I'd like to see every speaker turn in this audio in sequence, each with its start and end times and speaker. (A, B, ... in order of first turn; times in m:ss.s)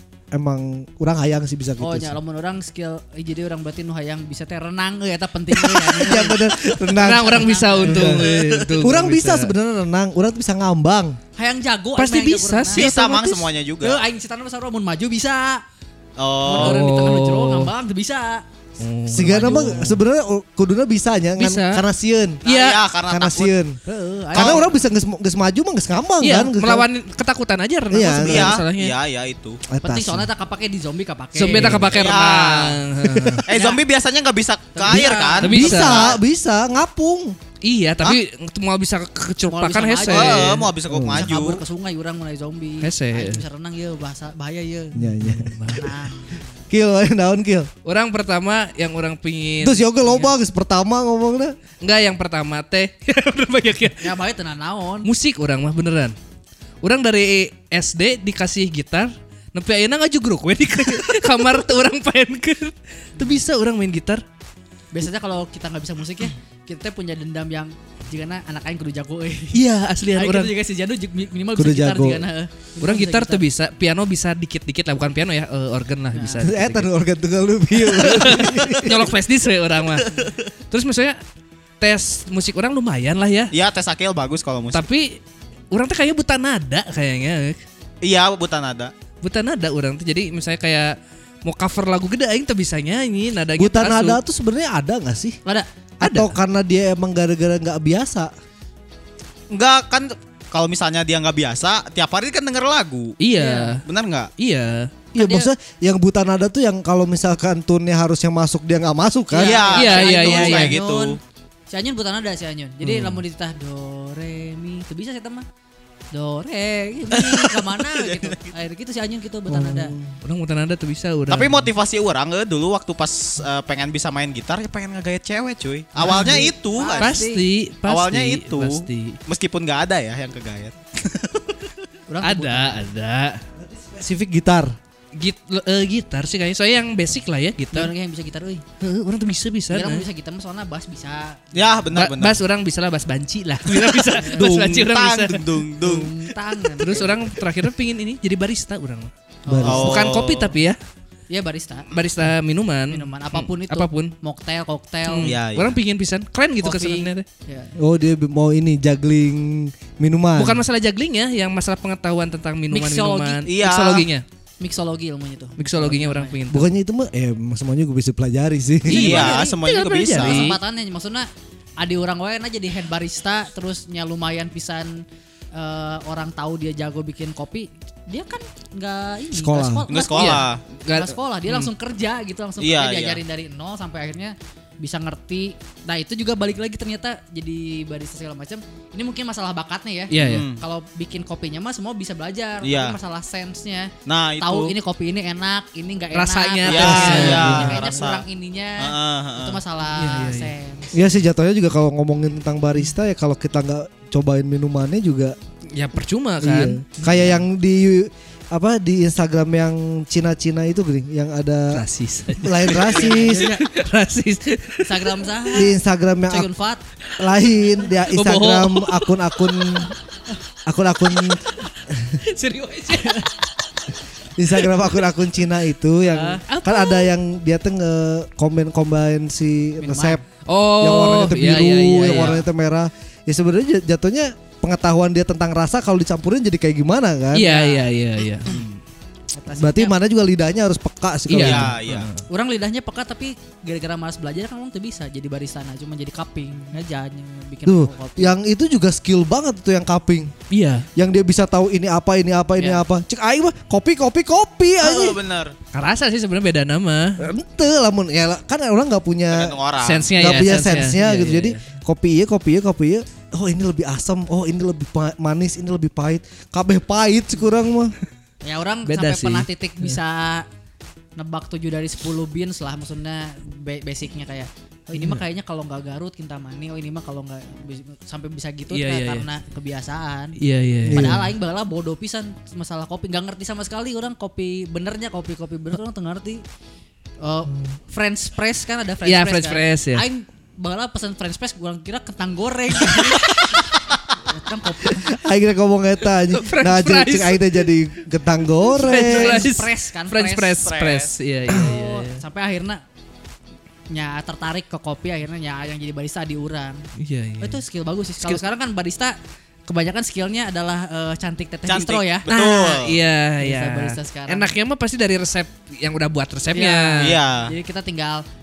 0:00.3-0:02.2 A
0:01.8-0:08.2 B
0:05.6-0:06.0 C
0:06.0-0:11.2 A
0:06.9-0:09.5 C
0:08.1-0:08.7 D
0:11.4-0:12.9 B
0:12.0-0:13.5 C
0:12.7-0:14.0 D
0:13.8-0:15.6 B
0:16.2-0:16.8 D
0:16.4-0:18.4 B
0:16.5-0:17.7 C
0:18.8-0:20.0 C
0:19.1-0:22.4 A
0:21.4-0:21.8 C
0:22.4-0:22.8 C
0:22.4-0:23.5 D
0:23.1-0:23.8 A
0:23.8-0:24.7 B
0:24.3-0:24.6 D
0:24.3-0:26.9 A
0:26.2-0:29.0 C
0:27.9-0:28.6 A
0:28.1-0:29.6 D
0:29.7-0:30.3 A
0:29.8-0:32.2 B
0:31.4-0:33.4 C
0:31.5-0:31.8 A
0:31.7-0:32.8 D
0:33.4-0:36.2 D
0:33.5-0:33.8 B
0:34.7-0:35.6 B
0:35.4-0:36.1 C
0:35.5-0:37.4 A
0:37.6-0:40.7 C
0:39.5-0:45.1 B
0:40.0-0:41.6 D
0:40.8-0:41.3 A
0:42.8-0:43.4 C
0:44.9-0:45.6 A
0:45.2-0:45.9 C
0:45.7-0:46.4 B
0:46.7-0:47.7 A
0:47.8-0:49.9 C
0:49.6-0:51.6 A
0:51.8-0:54.1 C
0:54.0-0:55.1 B
0:55.0-0:56.2 C
0:56.8-1:04.2 C
1:04.9-1:13.4 B
1:09.5-1:10.5 C
1:11.5-1:12.2 A
1:12.8-1:16.9 C
1:16.1-1:16.4 B
1:16.4-1:19.1 A
1:17.8-1:21.2 C
1:21.8-1:23.5 C
1:23.5-1:24.8 D
1:24.7-1:27.6 C
1:28.0-1:28.9 D
1:29.2-1:34.2 C
1:33.6-1:35.4 A
1:36.0-1:38.3 A
1:36.0-1:36.3 C
1:39.5-1:43.2 D
1:43.2-1:43.8 C
1:43.3-1:43.8 B
1:43.8-1:44.3 D
1:44.4-1:44.9 C
1:45.1-1:49.7 A
1:45.2-1:45.5 B
1:49.3-1:51.2 B
1:49.4-1:51.2 D
1:49.7-1:50.8 C
1:51.7-1:55.4 B
1:56.1-1:59.9 B
1:57.2-1:58.5 D
1:59.5-2:00.2 A
2:00.2-2:01.7 C
2:01.3-2:07.2 D
2:06.0-2:07.4 B
2:06.0-2:09.2 C
2:07.8-2:11.6 D
2:12.1-2:12.8 B
2:12.2-2:13.4 C
2:13.6-2:14.8 A
2:15.1-2:17.9 C
2:17.7-2:18.6 B
2:18.8-2:20.0 C
2:19.7-2:21.8 B
2:21.5-2:22.4 D
2:21.9-2:25.6 C
2:24.1-2:24.4 B
2:24.3-2:26.1 D
2:25.8-2:27.2 B
2:26.8-2:29.1 C
2:29.4-2:30.0 B
2:29.5-2:30.0 A
2:29.6-2:30.5 D
2:29.6-2:30.8 C
2:31.3-2:31.9 B
2:31.9-2:34.1 C
2:32.9-2:35.3 B
2:35.1-2:37.2 C
2:35.2-2:35.8 D
2:36.6-2:37.7 B
2:37.8-2:40.6 A
2:40.4-2:44.2 C
2:42.7-2:43.5 B
2:43.4-2:44.1 D
2:44.6-2:46.4 B
2:45.6-2:46.7 C
2:46.5-2:49.3 A
2:48.9-2:50.6 C
2:48.9-2:50.5 D
2:48.9-2:49.6 B
2:50.1-2:51.3 B
2:51.8-3:21.1 B
2:59.3-2:59.8 A
2:59.9-3:00.6 D
3:00.1-3:01.7 C
3:02.6-3:03.2 D
3:10.1-3:10.4 C
3:10.2-3:10.6 D
3:12.6-3:13.0 D
3:14.0-3:14.7 D
3:16.1-3:17.9 C
3:16.6-3:18.2 D
3:16.8-3:17.6 A
3:18.8-3:19.6 D
3:20.0-3:20.5 C
3:20.9-3:25.4 A
3:25.7-3:27.2 C
3:26.4-3:31.8 A
3:31.7-3:35.4 C
3:32.4-3:33.5 A
3:32.8-3:33.6 B
3:34.8-3:35.7 B
3:35.5-3:36.5 A
3:36.3-3:36.8 B
3:37.2-3:39.9 A
3:38.1-3:39.9 C
3:40.6-3:42.2 A
3:42.2-3:43.3 C
3:44.4-3:50.2 A
3:46.1-3:47.1 C
3:49.8-3:50.2 B
3:50.4-3:52.4 C
3:50.8-3:57.5 A
3:57.3-3:58.7 C
3:57.4-3:57.9 B
3:59.3-3:59.9 B
3:59.6-4:01.8 A
4:01.3-4:02.2 C
4:01.4-4:02.1 D
4:02.3-4:08.4 B
4:07.6-4:10.3 A
4:10.5-4:10.9 C
4:10.9-4:15.2 A
4:12.6-4:12.8 B
4:14.8-4:15.5 D
4:15.7-4:17.2 C
4:17.2-4:19.5 A
4:19.3-4:20.1 D
4:19.8-4:21.7 C
4:20.1-4:27.9 A
4:28.4-4:30.4 B
4:28.8-4:30.0 C
4:31.2-4:40.4 B
4:38.7-4:39.2 C
4:40.4-4:41.2 C
4:40.8-4:41.3 A
4:40.9-4:46.4 B
4:47.2-4:53.6 B
4:49.0-4:50.0 C
4:54.2-4:55.1 B
4:54.9-4:59.5 A
4:56.3-4:57.5 C
4:58.7-5:02.2 C
4:58.8-5:00.8 B
5:00.6-5:01.1 D
5:01.5-5:02.8 B
5:03.9-5:06.8 B
5:07.0-5:07.6 C
5:07.4-5:12.3 B
5:11.7-5:13.0 D
5:12.3-5:17.2 C
5:13.4-5:14.5 B
5:16.5-5:18.2 B
5:17.0-5:17.5 D